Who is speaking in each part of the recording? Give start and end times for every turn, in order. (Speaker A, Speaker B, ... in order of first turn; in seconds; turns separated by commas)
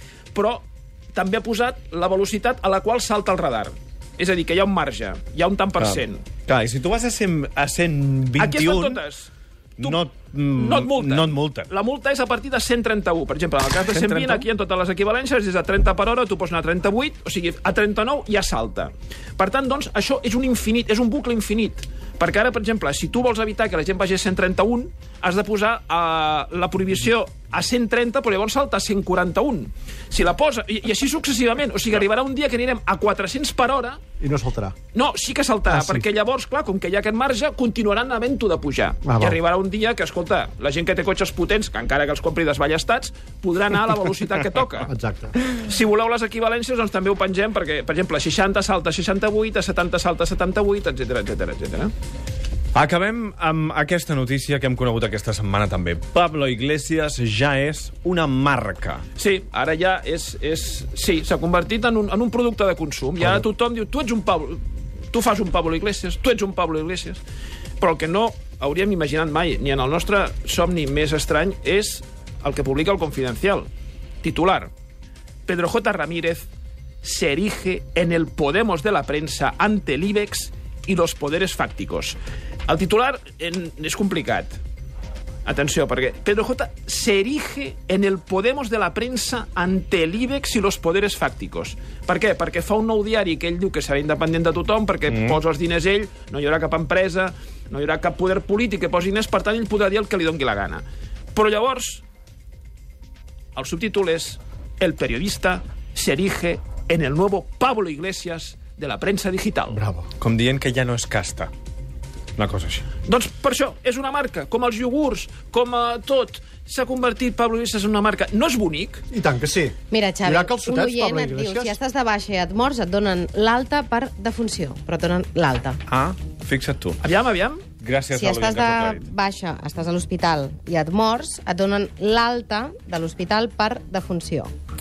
Speaker A: 0.3-6.2, Speaker B: 5.8-9.0, Speaker A: 8.4-10.0, Speaker B: 9.8-11.7, Speaker A: 10.6-34.0, Speaker B: 13.9-14.5, Speaker C: 34.2-34.8, Speaker A: 34.9-51.9, Speaker C: 35.7-36.0, Speaker C: 39.0-39.4, Speaker C: 44.8-45.4, Speaker B: 52.7-59.0, Speaker A: 59.2-67.2, Speaker A: 67.8-73.7, Speaker A: 74.2-74.7, Speaker A: 75.5-76.5, Speaker A: 77.0-84.6, Speaker A: 85.4-102.0, Speaker B: 95.1-95.4, Speaker A: 103.5-109.8, Speaker C: 109.7-110.1, Speaker B: 110.2-111.5, Speaker B: 112.4-112.8, Speaker A: 113.0-119.0, Speaker C: 119.1-121.8, Speaker D: 119.9-125.8, Speaker B: 125.9-127.0, Speaker A: 127.0-127.6, Speaker B: 127.8-129.1, Speaker D: 128.1-134.5